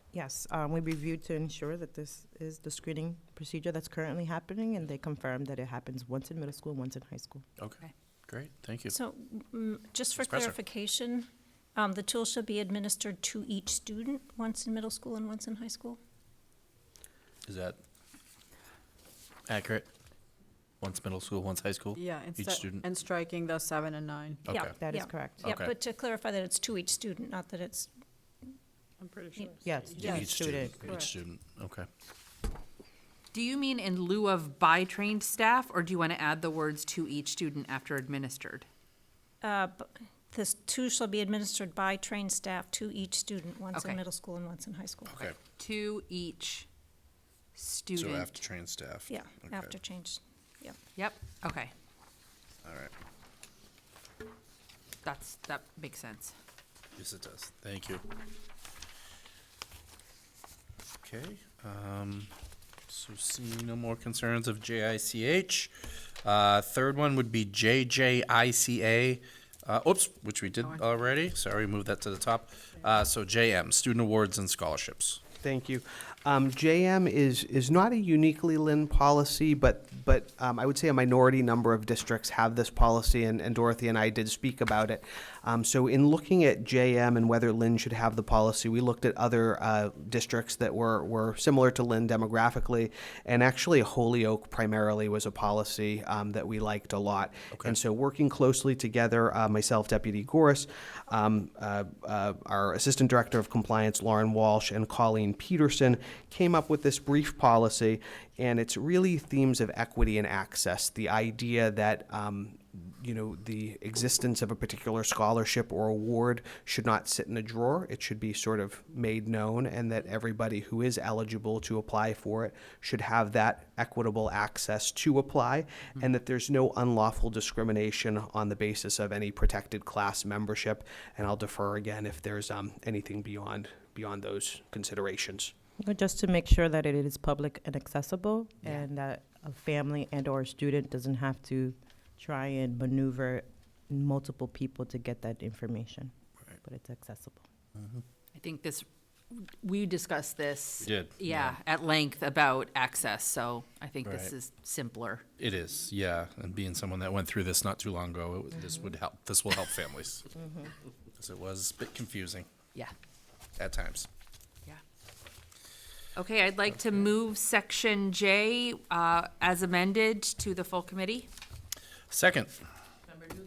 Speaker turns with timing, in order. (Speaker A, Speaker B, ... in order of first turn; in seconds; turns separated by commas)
Speaker A: 0.1-7.5, Speaker B: 7.6-8.9, Speaker C: 8.9-16.0, Speaker B: 10.2-10.6, Speaker B: 17.5-17.8, Speaker B: 19.5-19.9, Speaker B: 20.8-22.9, Speaker D: 22.0-24.4, Speaker B: 24.5-24.8, Speaker C: 24.5-27.9, Speaker A: 24.8-25.5, Speaker B: 25.4-25.7, Speaker D: 29.0-30.3, Speaker A: 29.6-30.9, Speaker B: 30.0-31.9, Speaker E: 33.3-38.7, Speaker C: 39.4-45.2, Speaker E: 43.7-44.0, Speaker B: 45.1-45.4, Speaker E: 45.2-46.7, Speaker E: 47.5-48.4, Speaker B: 47.9-49.7, Speaker C: 49.1-50.8, Speaker E: 51.0-51.7, Speaker B: 52.6-52.9, Speaker E: 55.0-56.3, Speaker B: 57.0-58.0, Speaker B: 61.0-62.3, Speaker B: 62.9-65.7, Speaker B: 66.2-75.2, Speaker F: 75.4-135.5, Speaker A: 135.8-146.1, Speaker A: 146.6-147.4, Speaker E: 148.3-155.2, Speaker B: 150.8-151.6, Speaker B: 154.1-154.3, Speaker B: 155.4-160.3, Speaker A: 160.4-160.7, Speaker B: 161.2-162.5, Speaker B: 163.6-164.1, Speaker E: 166.2-171.3, Speaker B: 172.1-172.5